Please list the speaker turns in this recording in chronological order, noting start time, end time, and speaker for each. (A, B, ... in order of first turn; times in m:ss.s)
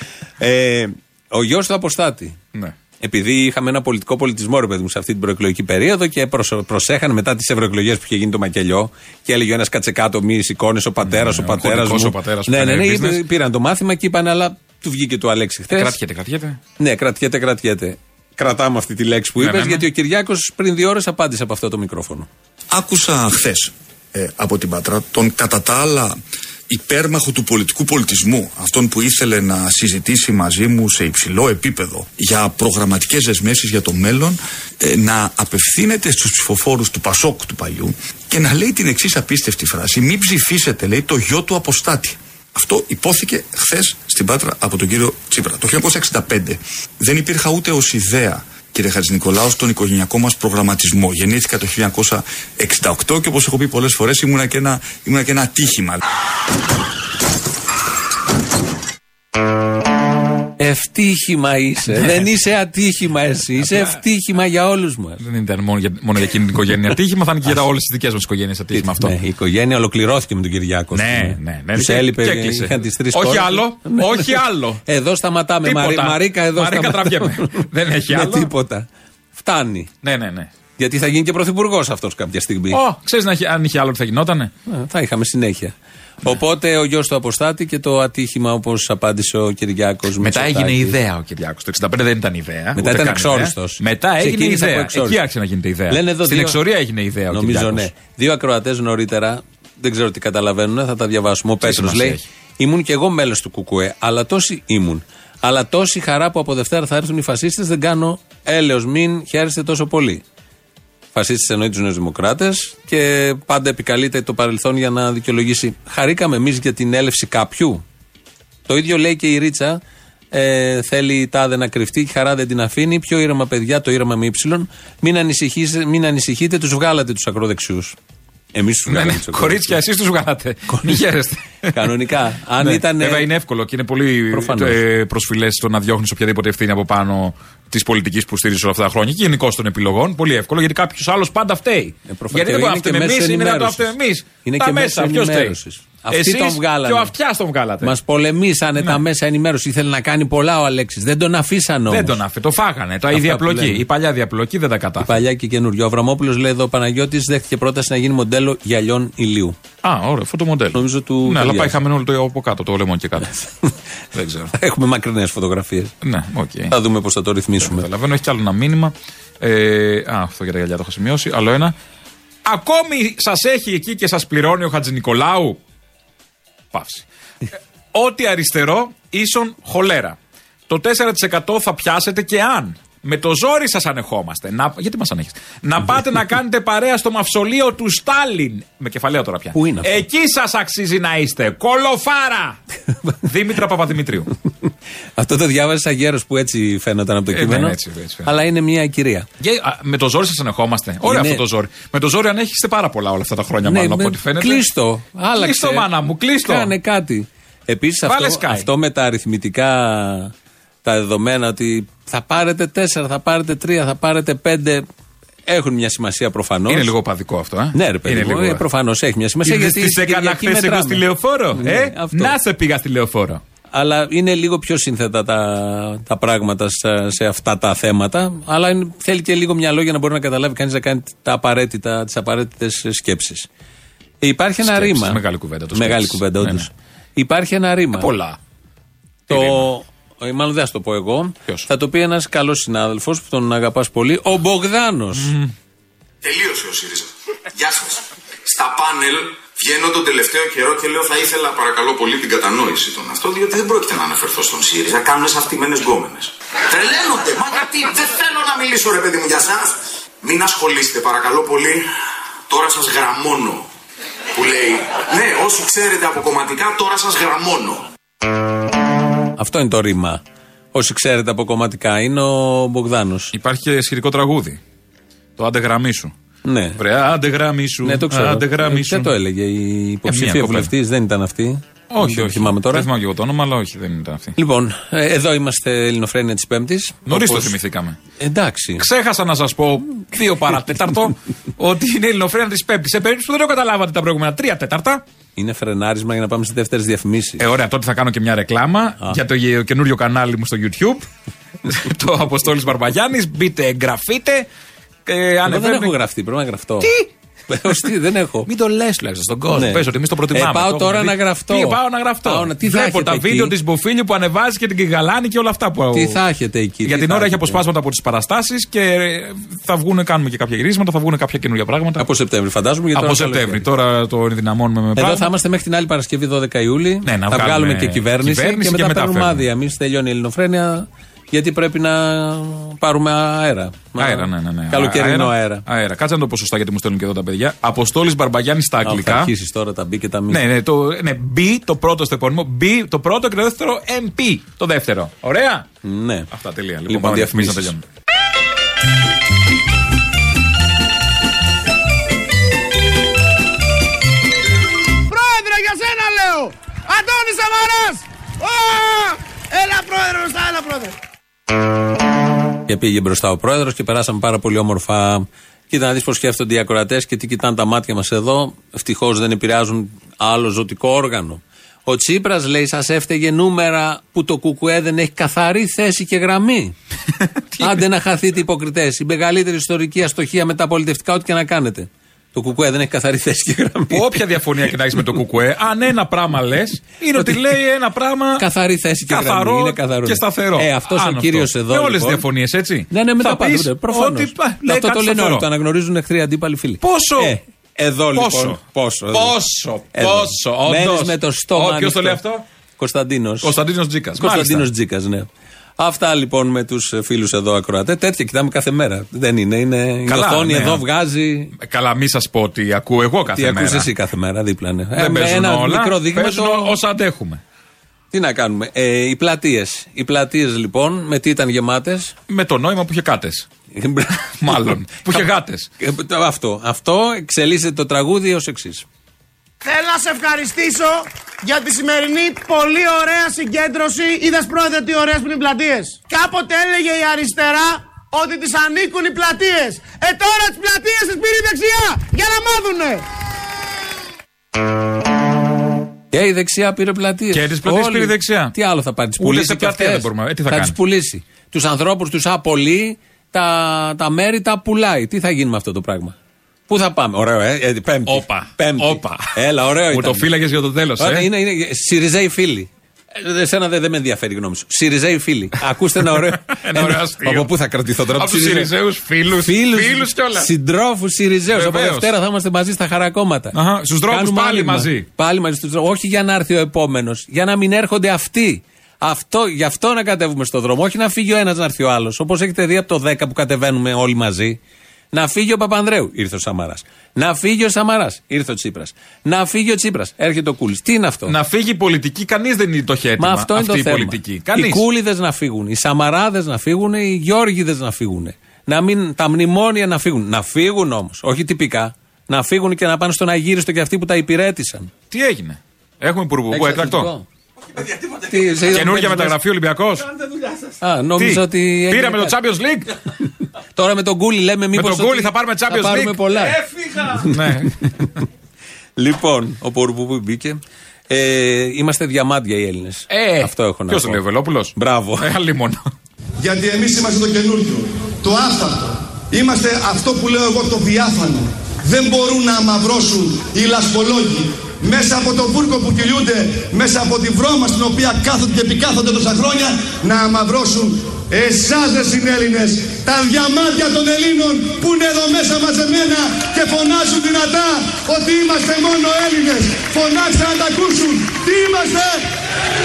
0:00.4-0:02.4 A
0:03.0-0:16.0 A
0:11.0-0:13.2 B
0:15.7-0:16.6 B
0:16.8-0:22.3 A
0:19.4-0:19.8 B
0:22.7-0:56.0 C
1:00.6-1:05.2 A
1:05.2-1:09.1 B
1:08.7-1:19.9 A
1:10.9-1:14.8 B
1:15.6-1:18.5 B
1:20.0-1:20.5 B
1:20.8-1:22.8 A
1:22.7-1:24.5 B
1:24.7-1:31.0 A
1:30.2-1:37.9 B
1:32.8-1:35.2 A
1:35.9-1:36.6 A
1:37.3-1:50.2 A
1:41.6-1:42.2 B
1:51.1-1:57.8 A
1:58.7-1:59.8 A
2:00.3-2:08.0 A
2:08.5-2:09.8 A
2:08.9-2:12.0 B
2:10.7-2:11.0 A
2:11.7-2:13.3 A
2:12.6-2:25.6 B
2:14.3-2:14.8 A
2:22.1-2:23.9 A
2:24.4-2:27.1 A
2:26.1-2:27.9 B
2:27.8-2:32.2 A
2:31.9-2:35.2 B
2:33.1-2:33.8 A
2:35.0-2:39.6 A
2:39.8-2:43.4 B
2:40.7-2:41.7 A
2:44.1-2:44.5 B
2:44.5-2:45.9 A
2:46.0-2:46.7 B
2:46.7-2:47.9 A
2:47.6-2:51.7 B
2:52.4-2:55.6 B
2:56.7-2:57.0 B
2:57.9-3:00.2 B
3:00.7-3:12.6 B
3:09.5-3:10.0 A
3:13.2-3:14.3 B
3:15.2-3:19.3 A
3:17.3-3:18.3 B
3:19.4-3:24.6 B
3:21.0-3:21.4 A
3:23.6-3:25.9 A
3:25.4-3:26.7 B
3:26.4-3:30.3 A
3:28.0-3:28.7 B
3:30.8-3:34.8 A
3:35.5-3:36.9 A
3:36.7-3:38.6 B
3:37.7-3:41.0 A
3:39.4-3:43.4 B
3:41.5-3:42.4 A
3:43.7-3:53.5 A
3:54.2-3:55.2 A
3:54.6-3:56.7 B
3:55.7-3:58.1 A
3:57.9-3:58.4 B
3:59.3-3:59.7 B
3:59.3-4:05.3 A
4:05.1-4:05.5 B
4:06.2-4:21.9 D
4:22.5-4:23.7 D
4:24.3-4:27.9 D
4:29.4-4:30.2 A
4:30.7-4:33.3 A
4:33.3-4:34.6 B
4:35.4-4:36.1 B
4:36.4-4:36.8 A
4:36.8-4:39.1 B
4:37.8-4:42.9 A
4:40.0-4:40.7 B
4:41.9-4:44.4 B
4:44.4-4:47.5 A
4:47.1-4:48.0 B
4:48.2-4:48.8 A
4:48.8-4:55.0 B
4:55.4-4:57.4 A
4:57.4-5:01.0 B
5:01.6-5:04.5 B
5:05.0-5:05.9 B
5:05.4-5:06.9 A
5:06.8-5:07.1 B
5:07.5-5:08.5 A
5:08.4-5:16.2 B
5:09.5-5:13.5 A
5:15.9-5:17.6 A
5:16.8-5:22.0 B
5:22.0-5:23.6 A
5:22.9-5:25.3 B
5:25.0-5:35.6 A
5:27.0-5:29.4 B
5:34.0-5:39.3 B
5:38.8-5:40.4 A
5:40.3-5:45.6 B
5:45.8-5:46.3 A
5:46.3-5:47.8 B
5:46.9-5:47.7 A
5:55.1-6:01.0 E
6:02.7-6:16.7 A
6:17.5-6:17.8 B
6:17.6-6:24.2 A
6:23.9-6:28.4 B
6:27.2-6:27.5 A
6:28.4-6:32.2 A
6:29.1-6:35.4 B
6:32.9-6:39.4 A
6:36.8-6:37.4 B
6:38.1-6:42.4 B
6:39.9-6:42.2 A
6:42.8-6:43.5 A
6:43.4-6:44.7 B
6:44.2-6:45.3 A
6:45.8-6:51.5 A
6:50.1-6:50.8 B
6:51.6-6:53.9 B
6:53.3-6:56.8 A
6:55.0-6:57.4 B
6:58.1-7:02.1 A
7:02.3-7:03.5 B
7:03.7-7:05.2 A
7:04.4-7:05.7 B
7:05.8-7:08.8 A
7:09.6-7:23.0 E
7:26.1-7:36.2 A
7:27.3-7:28.5 B
7:29.2-7:30.8 B
7:36.7-7:40.3 A
7:38.1-7:39.3 B
7:39.9-7:41.3 B
7:41.0-7:48.7 A
7:46.1-7:47.5 B
7:48.1-7:50.5 B
7:49.4-7:53.6 A
7:51.5-7:52.1 B
7:53.5-7:55.1 B
7:54.1-8:04.6 A
8:05.1-8:11.3 A
8:11.3-8:14.8 B
8:13.2-8:24.9 A
8:25.1-8:27.1 B
8:26.5-8:27.2 A
8:28.0-8:29.4 A
8:28.7-8:30.6 B
8:30.8-8:32.4 A
8:31.2-8:32.9 B
8:33.7-8:38.1 A
8:34.7-8:38.0 B
8:39.0-8:44.2 A
8:43.1-8:45.9 B
8:44.7-8:45.3 A
8:46.4-9:12.2 F